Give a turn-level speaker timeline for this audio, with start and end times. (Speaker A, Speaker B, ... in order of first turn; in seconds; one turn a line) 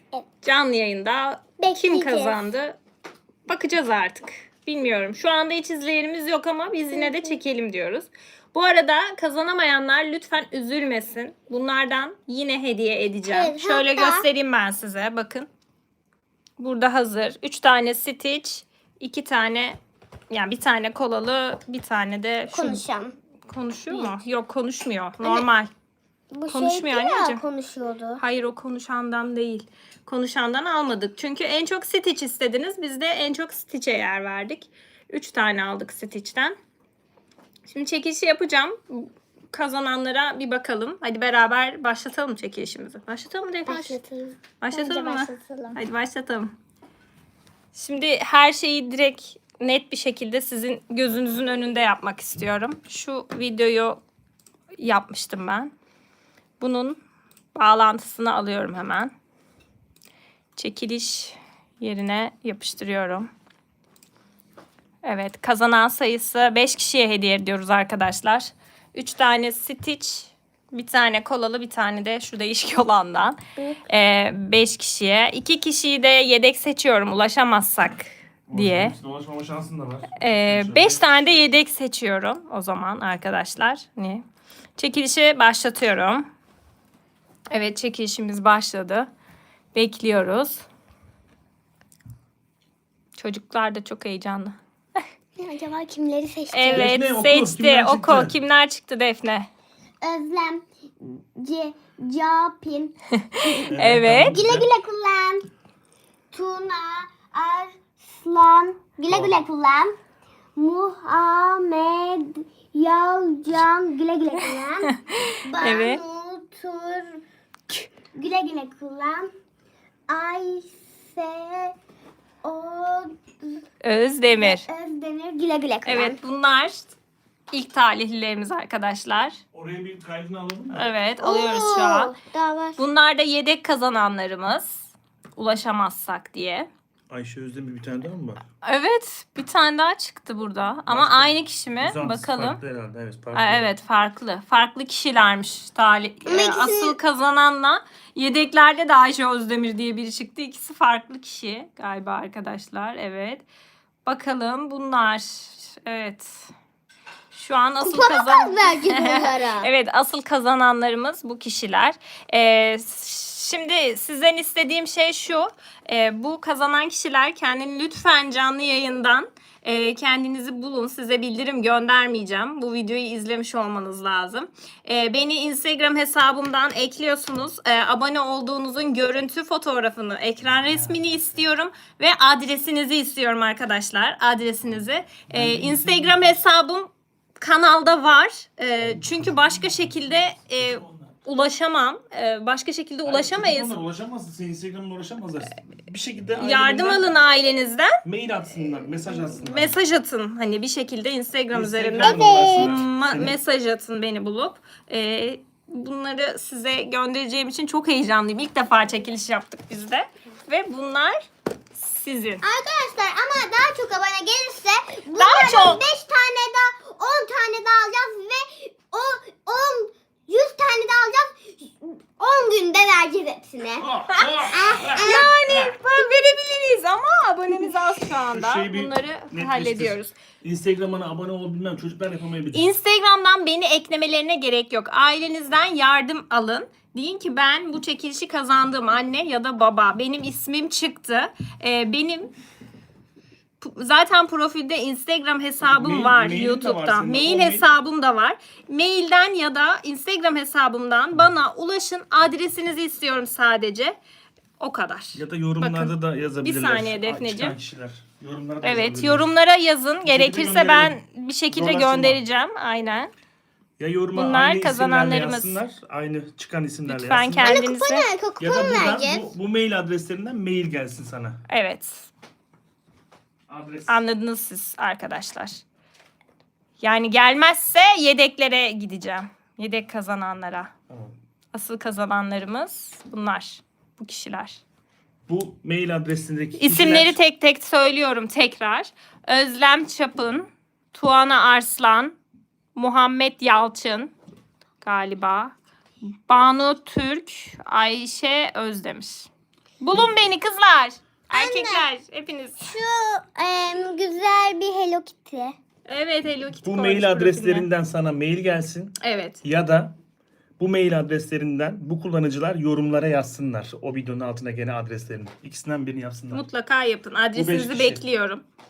Speaker A: 0.4-2.8
Speaker B: 1.6-2.5
Speaker A: 3.5-15.5
Speaker B: 6.9-7.4
Speaker B: 13.3-14.3
Speaker A: 16.6-19.8
Speaker A: 20.3-22.8
Speaker B: 22.5-23.1
Speaker A: 23.5-25.7
Speaker B: 25.2-25.5
Speaker B: 26.3-28.2
Speaker A: 26.5-27.4
Speaker A: 28.2-36.6
Speaker A: 37.7-44.0
Speaker B: 43.7-45.8
Speaker A: 44.6-46.5
Speaker A: 47.7-54.0
Speaker A: 54.8-55.7
Speaker A: 56.6-57.0
Speaker A: 57.5-59.1
Speaker A: 60.6-63.3
Speaker A: 65.0-79.0
Speaker C: 78.5-81.3
Speaker A: 80.2-84.2
Speaker A: 84.8-86.3
Speaker A: 87.5-89.1
Speaker A: 89.7-90.6
Speaker A: 93.2-94.6
Speaker B: 95.4-96.9
Speaker A: 96.5-99.5
Speaker C: 96.7-98.4
Speaker B: 100.0-103.6
Speaker A: 103.2-104.4
Speaker C: 103.7-104.7
Speaker B: 104.2-105.5
Speaker B: 106.3-110.0
Speaker B: 110.6-117.2
Speaker A: 114.9-116.0
Speaker B: 118.1-119.3
Speaker B: 120.1-121.8
Speaker B: 122.4-123.6
Speaker A: 123.8-124.7
Speaker B: 124.4-126.2
Speaker A: 125.9-126.9
Speaker A: 127.5-129.4
Speaker C: 129.5-130.9
Speaker A: 130.7-132.2
Speaker B: 131.2-132.8
Speaker A: 132.8-136.7
Speaker C: 137.1-138.4
Speaker A: 138.6-142.6
Speaker C: 140.9-143.7
Speaker A: 143.3-153.4
Speaker B: 146.3-147.0
Speaker A: 154.1-156.5
Speaker A: 157.3-193.8
Speaker B: 157.8-159.7
Speaker C: 180.7-181.2
Speaker C: 185.3-186.3
Speaker C: 190.6-191.1
Speaker C: 193.1-197.0
Speaker A: 196.4-198.0
Speaker C: 198.0-199.8
Speaker A: 199.4-211.2
Speaker C: 201.5-203.4
Speaker B: 202.0-202.7
Speaker A: 211.7-212.4
Speaker B: 212.4-223.9
Speaker A: 215.2-215.8
Speaker C: 223.8-225.8
Speaker B: 224.5-225.3
Speaker A: 225.0-230.1
Speaker C: 228.3-232.7
Speaker A: 232.5-242.3
Speaker A: 243.6-254.0
Speaker C: 245.7-247.7
Speaker A: 254.6-257.6
Speaker C: 255.1-259.3
Speaker A: 258.6-263.1
Speaker C: 260.1-261.0
Speaker C: 261.5-262.2
Speaker C: 263.8-267.6
Speaker A: 264.1-265.6
Speaker A: 266.9-268.1
Speaker B: 267.4-269.3
Speaker C: 268.4-271.4
Speaker A: 271.5-272.1
Speaker C: 273.5-274.0
Speaker A: 273.9-275.6
Speaker A: 276.8-280.7
Speaker C: 280.9-281.1
Speaker A: 281.5-284.6
Speaker C: 285.3-287.2
Speaker A: 286.6-292.1
Speaker A: 292.8-294.1
Speaker A: 294.8-295.5
Speaker A: 296.3-299.3
Speaker A: 299.8-302.7
Speaker B: 301.3-301.9
Speaker B: 302.6-305.6
Speaker A: 305.9-307.7
Speaker C: 306.6-309.9
Speaker A: 309.0-309.4
Speaker C: 310.6-316.4
Speaker A: 316.3-318.4
Speaker C: 317.3-318.0